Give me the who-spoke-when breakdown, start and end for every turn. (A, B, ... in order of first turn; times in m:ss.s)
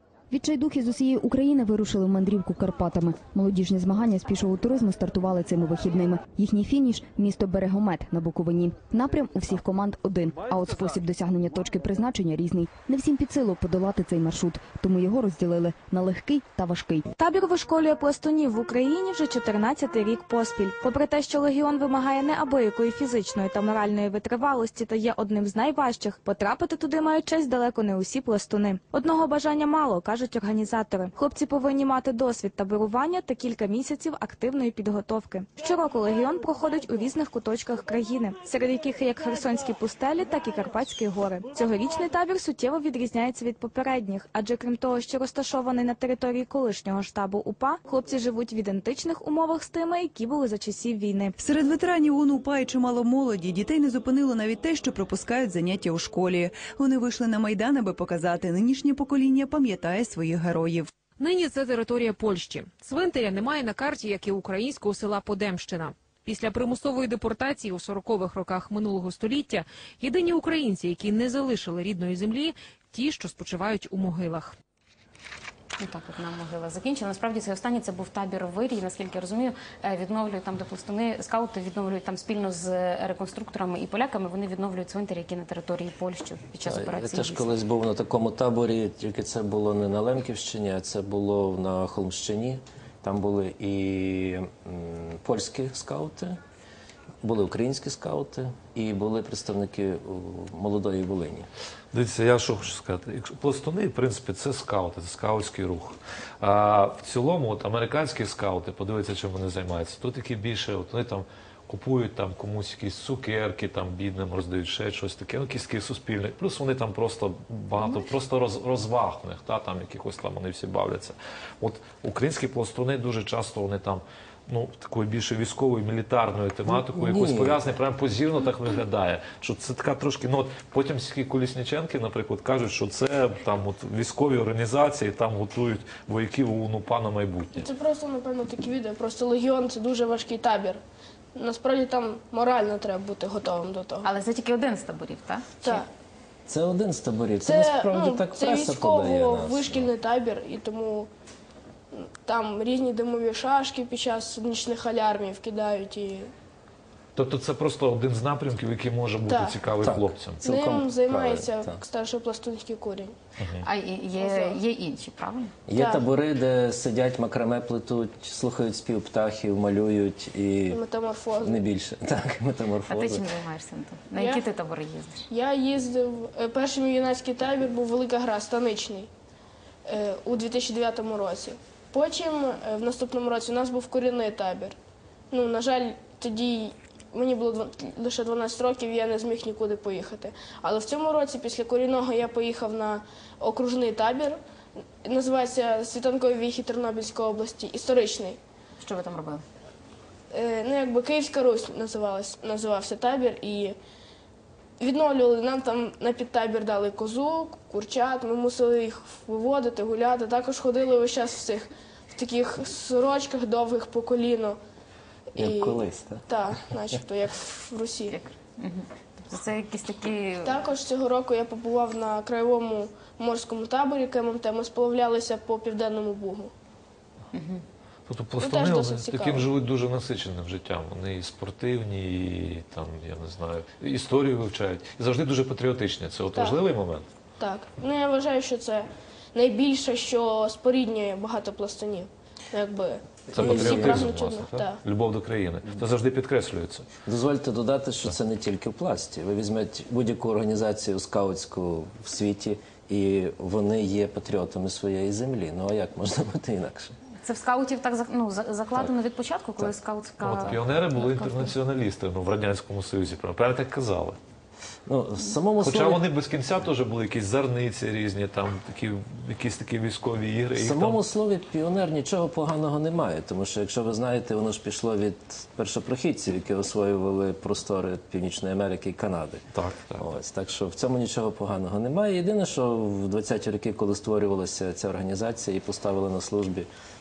0:00.3-0:17.1 A
0:17.2-0:51.3 B
0:51.4-1:00.9 C
1:01.2-1:14.5 D
1:15.8-1:27.5 E
1:26.6-1:36.4 F
1:37.2-1:41.5 F
1:41.9-2:17.7 G
2:06.7-2:07.6 F
2:17.6-2:20.8 H
2:21.3-2:24.1 H
2:24.0-2:25.8 E
2:25.6-2:25.9 H
2:26.5-2:29.9 F
2:27.4-2:31.1 H
2:31.9-2:36.3 H
2:37.2-2:40.4 G
2:39.2-2:39.5 H
2:39.8-2:41.8 F
2:40.4-2:43.1 H
2:43.4-2:43.6 G
2:43.6-2:45.5 E
2:44.2-2:44.6 H
2:45.7-2:50.8 F
2:45.7-2:46.0 H
2:50.7-2:51.6 H
2:51.4-2:53.2 F
2:52.9-2:55.2 E
2:54.2-2:54.4 H
2:55.3-2:59.1 H
2:59.9-3:04.8 H
3:05.3-3:14.4 H
3:15.0-3:18.4 H
3:18.8-3:19.4 E
3:20.3-3:23.8 H
3:24.8-3:34.6 H
3:35.3-3:38.2 H
3:35.4-3:36.3 F
3:38.1-3:40.6 E
3:40.4-3:46.5 H
3:47.3-3:47.6 E
3:48.1-3:57.0 G
3:48.4-3:49.5 H
3:57.4-4:04.8 H
4:03.3-4:04.1 F
4:03.3-4:06.8 G
4:07.0-4:16.9 F
4:17.2-4:21.5 E
4:20.2-4:24.2 G
4:24.9-4:26.0 F
4:25.6-4:31.0 G
4:30.6-4:39.4 F
4:39.5-4:40.0 G
4:40.0-4:46.7 F